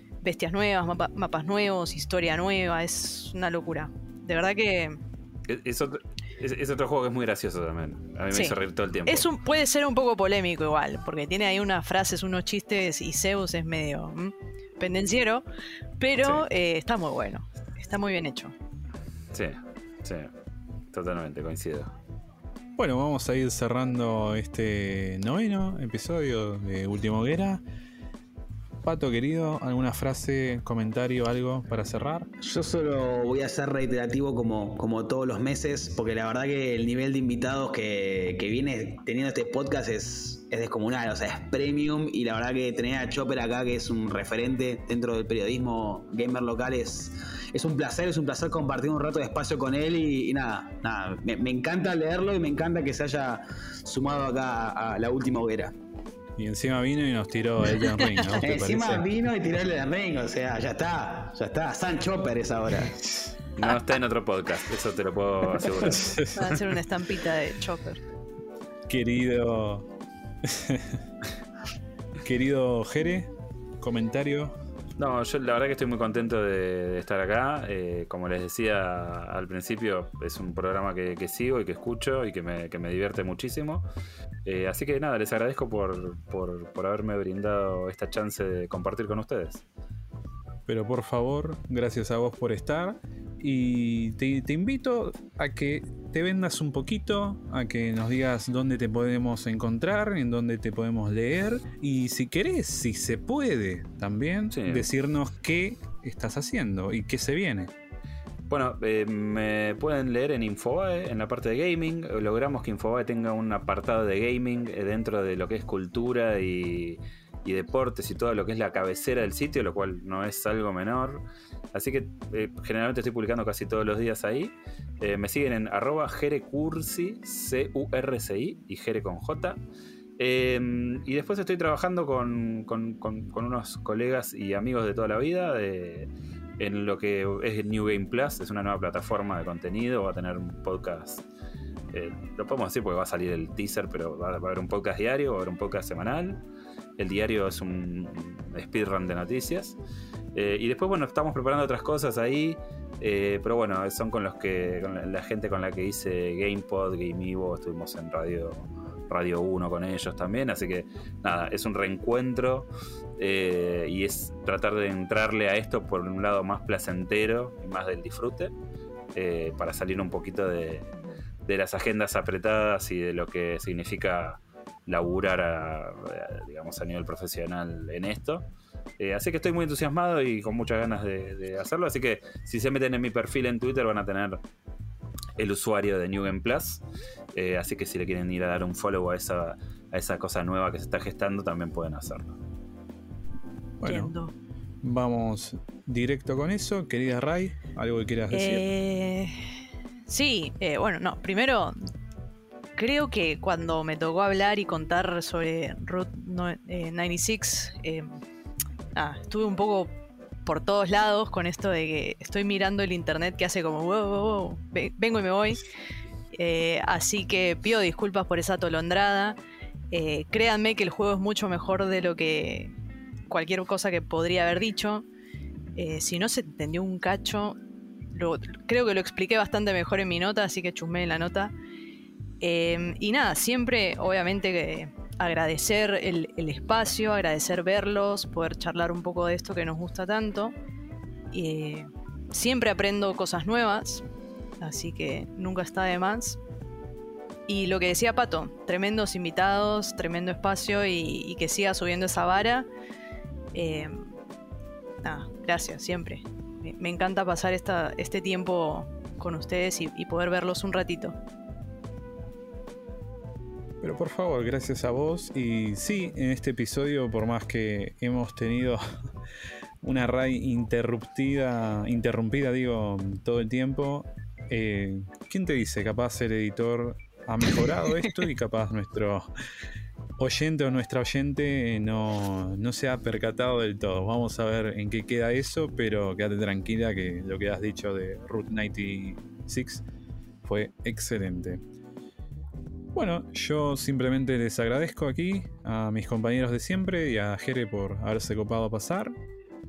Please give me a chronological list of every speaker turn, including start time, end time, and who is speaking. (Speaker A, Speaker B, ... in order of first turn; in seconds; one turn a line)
Speaker A: 0.2-5.0
Speaker B: 5.5-9.3
Speaker A: 9.1-15.4
Speaker A: 16.0-18.5
Speaker B: 19.3-20.3
Speaker B: 20.9-21.9
Speaker C: 22.8-27.6
Speaker C: 28.8-32.3
Speaker D: 32.4-55.7
Speaker C: 56.4-59.0
Speaker D: 58.4-63.0
Speaker B: 63.5-66.5
Speaker A: 66.3-68.0
Speaker C: 68.9-69.8
Speaker C: 70.4-71.0
Speaker C: 72.2-73.3
Speaker C: 73.8-74.5
Speaker B: 75.0-83.8
Speaker B: 84.4-89.6
Speaker C: 90.7-107.7
Speaker B: 104.5-104.9
Speaker B: 108.5-129.6
Speaker B: 130.2-136.1
Speaker B: 136.6-141.2
Speaker B: 141.9-146.4
Speaker B: 147.0-149.8
Speaker B: 150.3-168.5
Speaker B: 169.1-170.9
Speaker B: 171.4-178.4
Speaker B: 179.0-184.4
Speaker B: 185.4-186.8
Speaker B: 187.3-192.4
Speaker C: 193.8-194.1
Speaker A: 193.8-194.3
Speaker C: 194.8-198.7
Speaker A: 198.3-199.4
Speaker A: 200.1-201.8
Speaker A: 202.8-208.2
Speaker A: 208.9-209.9
Speaker A: 210.4-215.7
Speaker A: 216.3-219.4
Speaker A: 219.9-222.7
Speaker A: 223.3-225.0
Speaker A: 225.8-227.6
Speaker A: 228.1-231.5
Speaker A: 232.4-240.5
Speaker A: 241.3-244.0
Speaker A: 244.6-246.4
Speaker A: 247.5-252.7
Speaker A: 253.5-254.1
Speaker A: 255.0-261.1
Speaker C: 263.8-269.1
Speaker C: 269.8-279.3
Speaker C: 280.2-289.8
Speaker C: 290.4-291.6
Speaker C: 292.9-299.1